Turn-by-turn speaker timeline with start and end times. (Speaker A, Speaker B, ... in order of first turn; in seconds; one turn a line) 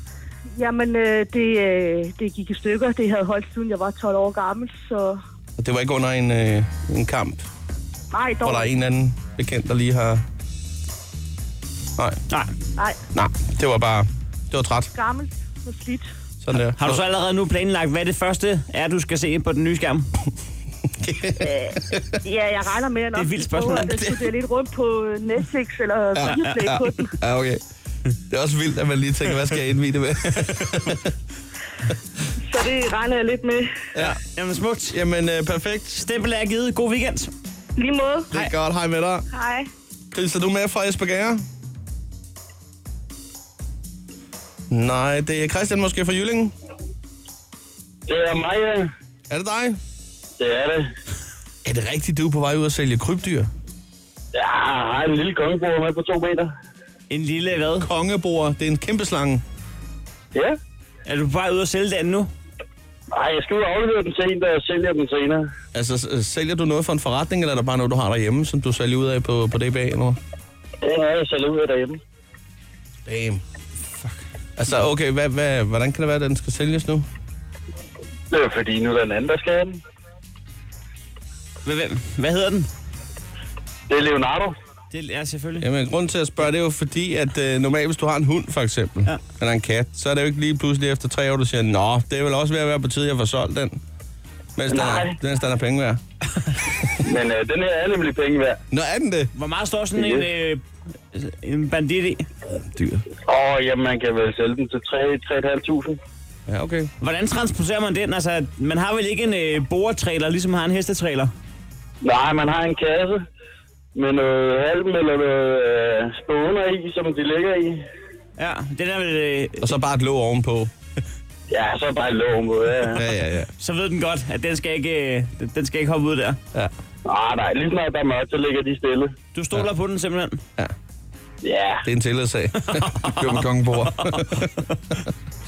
Speaker A: 0.6-1.3
Speaker A: 2.3-5.0
Speaker B: 5.6-7.5
Speaker A: 8.1-8.7
Speaker B: 8.4-10.2
Speaker B: 13.1-14.9
Speaker A: 15.0-16.0
Speaker B: 16.4-17.0
Speaker C: 16.7-20.1
Speaker B: 21.0-22.1
Speaker A: 22.3-26.9
Speaker C: 23.1-24.1
Speaker B: 23.9-24.3
Speaker B: 26.1-27.6
Speaker C: 26.2-26.6
Speaker B: 28.3-31.1
Speaker C: 30.4-30.7
Speaker C: 34.0-35.0
Speaker B: 34.9-36.0
Speaker C: 36.0-37.3
Speaker B: 38.3-39.2
Speaker B: 40.1-41.4
Speaker B: 44.7-46.5
Speaker D: 48.1-48.9
Speaker B: 49.3-49.8
Speaker D: 50.4-50.9
Speaker B: 51.6-53.5
Speaker D: 54.3-56.5
Speaker C: 57.1-57.9
Speaker B: 57.8-59.4
Speaker C: 61.1-62.3
Speaker D: 63.1-65.5
Speaker B: 65.7-70.2
Speaker D: 70.8-72.0
Speaker B: 73.1-73.4
Speaker B: 74.6-77.1
Speaker D: 78.3-79.8
Speaker C: 81.7-82.7
Speaker D: 83.9-84.5
Speaker C: 84.9-85.7
Speaker B: 85.6-93.8
Speaker B: 94.6-96.0
Speaker D: 94.7-95.2
Speaker D: 97.0-98.6
Speaker B: 98.7-99.3
Speaker C: 99.3-102.3
Speaker D: 100.0-100.2
Speaker B: 102.5-103.1
Speaker D: 103.3-106.0
Speaker B: 106.5-106.9
Speaker C: 107.0-111.3
Speaker D: 112.0-113.2
Speaker D: 114.0-117.8
Speaker C: 118.4-119.7
Speaker B: 119.6-120.7
Speaker D: 121.5-123.0
Speaker B: 122.9-123.5
Speaker C: 123.6-126.4
Speaker D: 127.1-129.1
Speaker C: 129.3-130.4
Speaker D: 131.4-131.8
Speaker B: 131.8-134.5
Speaker C: 132.7-134.4